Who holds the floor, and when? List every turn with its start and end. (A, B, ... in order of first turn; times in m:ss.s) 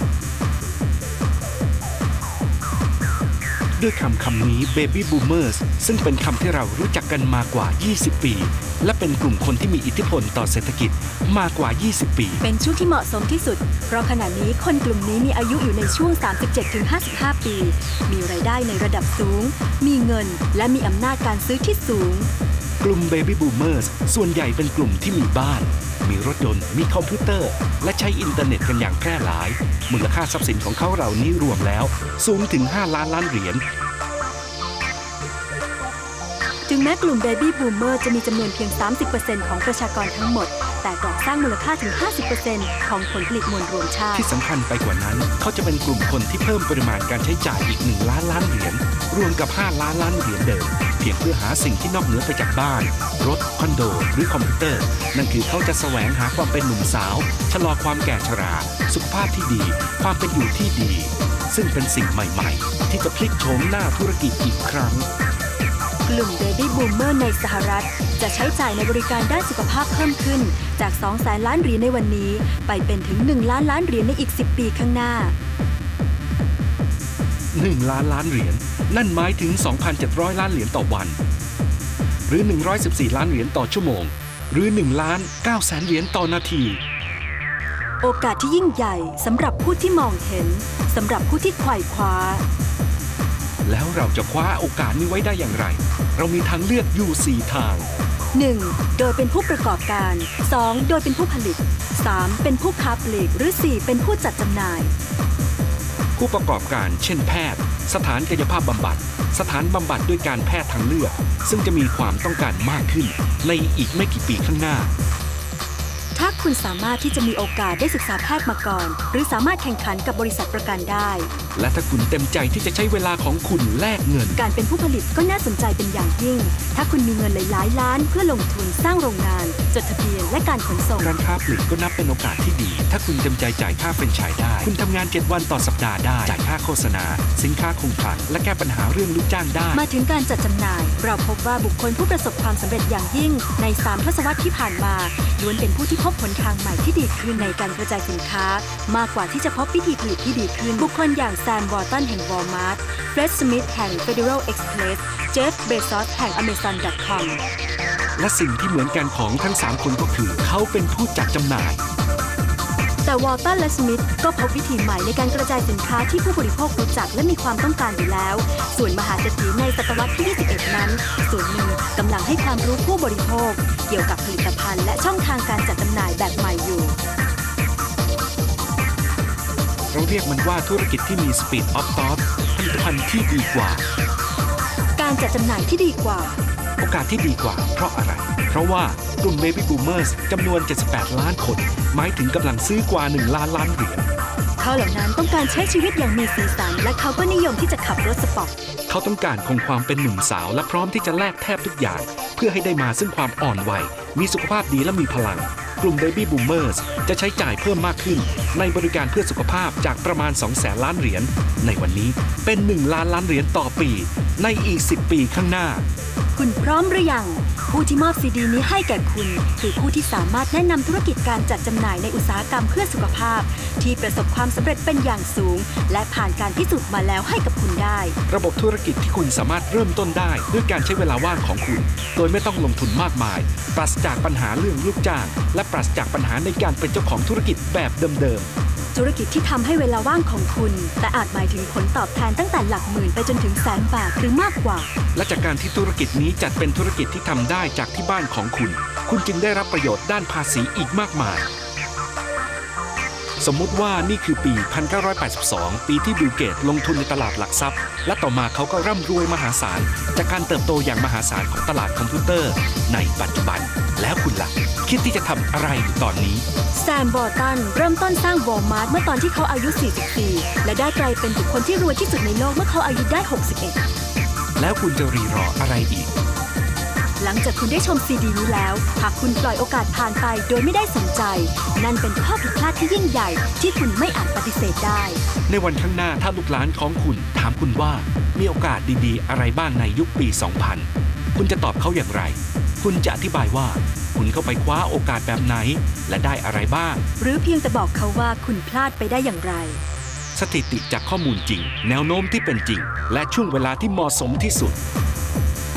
0:03.8-0:12.4 A
0:12.4-0:22.3 B
0:22.8-0:33.6 A
0:36.6-0:44.3 B
0:44.1-1:05.1 A
1:06.0-1:15.3 B
1:17.5-1:21.2 A
1:22.3-1:26.8 A
1:28.0-1:32.4 B
1:33.6-1:37.9 A
1:38.3-1:44.9 B
1:46.2-1:54.9 A
1:56.1-2:01.3 B
2:01.5-2:04.4 A
2:04.3-2:11.1 B
2:11.0-2:19.8 A
2:19.7-2:37.4 B
2:38.2-2:41.8 A
2:43.0-2:57.0 B
2:59.9-3:03.8 A
3:05.0-3:06.4 B
3:06.8-3:14.0 A
3:14.6-3:18.5 B
3:18.9-3:35.8 A
3:36.3-3:48.2 B
3:48.3-3:58.5 A
3:58.9-4:04.9 B
4:05.1-4:11.4 A
4:13.4-4:26.4 A
4:26.7-4:33.8 B
4:34.6-4:36.1 A
4:37.2-4:45.2 B
4:45.5-4:57.0 A
4:57.2-4:59.8 B
5:00.3-5:04.8 A